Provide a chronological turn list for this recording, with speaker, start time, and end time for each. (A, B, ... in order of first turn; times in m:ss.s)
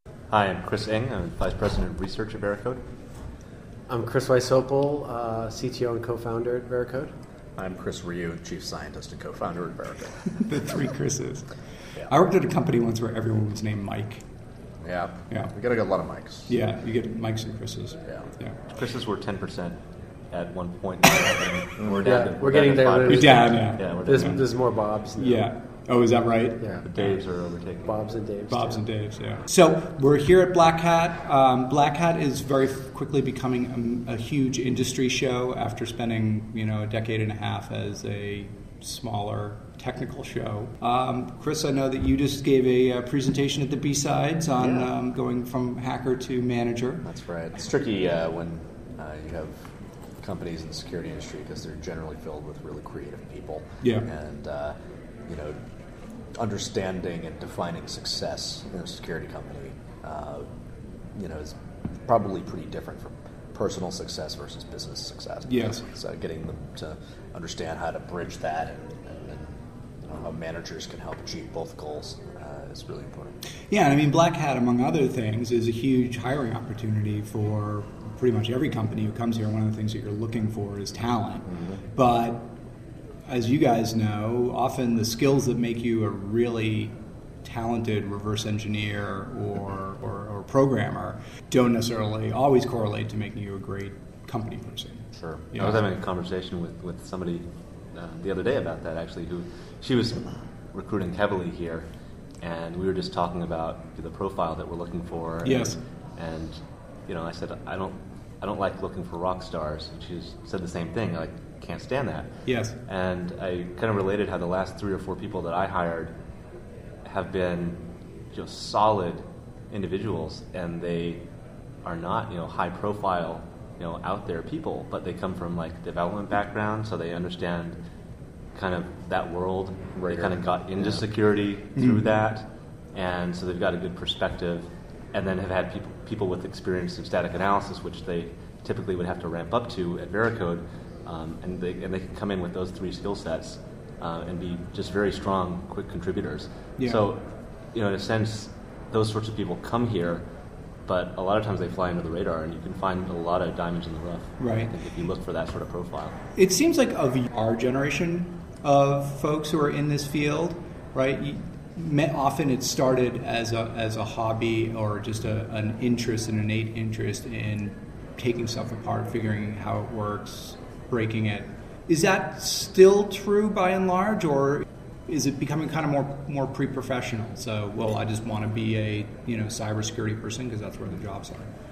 0:00.3-0:02.8 A
0:03.9-0:07.1 B
0:07.6-0:10.3 C
0:10.3-0:11.5 D
0:12.1-0:14.2 D
0:14.8-0:16.6 C
0:16.5-0:18.6 D
0:18.7-0:19.8 A
0:20.3-0:24.4 A
0:22.0-0:25.5 B
0:23.1-0:24.4 D
0:25.2-0:27.0 D
0:26.6-0:26.8 B
0:26.8-0:28.0 A
0:27.8-0:28.8 B
0:28.5-0:47.1 D
0:44.6-0:44.9 C
0:47.0-0:54.8 C
0:53.8-0:54.1 D
0:55.3-0:55.6 C
0:56.4-1:00.5 C
1:01.2-1:01.6 C
1:02.1-1:13.4 C
1:05.5-1:05.8 D
1:13.7-1:22.5 D
1:21.5-1:21.8 C
1:23.3-1:35.8 D
1:35.2-1:35.5 C
1:35.6-1:41.9 A
1:42.4-1:52.3 A
1:45.4-1:45.8 D
1:52.5-1:52.8 D
1:52.9-1:56.1 A
1:57.0-1:57.8 A
1:58.3-2:01.2 A
2:01.8-2:07.8 A
2:08.6-2:27.2 A
2:10.0-2:11.0 C
2:11.8-2:12.1 D
2:26.8-2:27.0 D
2:27.7-2:30.2 A
2:30.9-2:36.2 A
2:34.4-2:34.7 D
2:36.4-3:01.5 D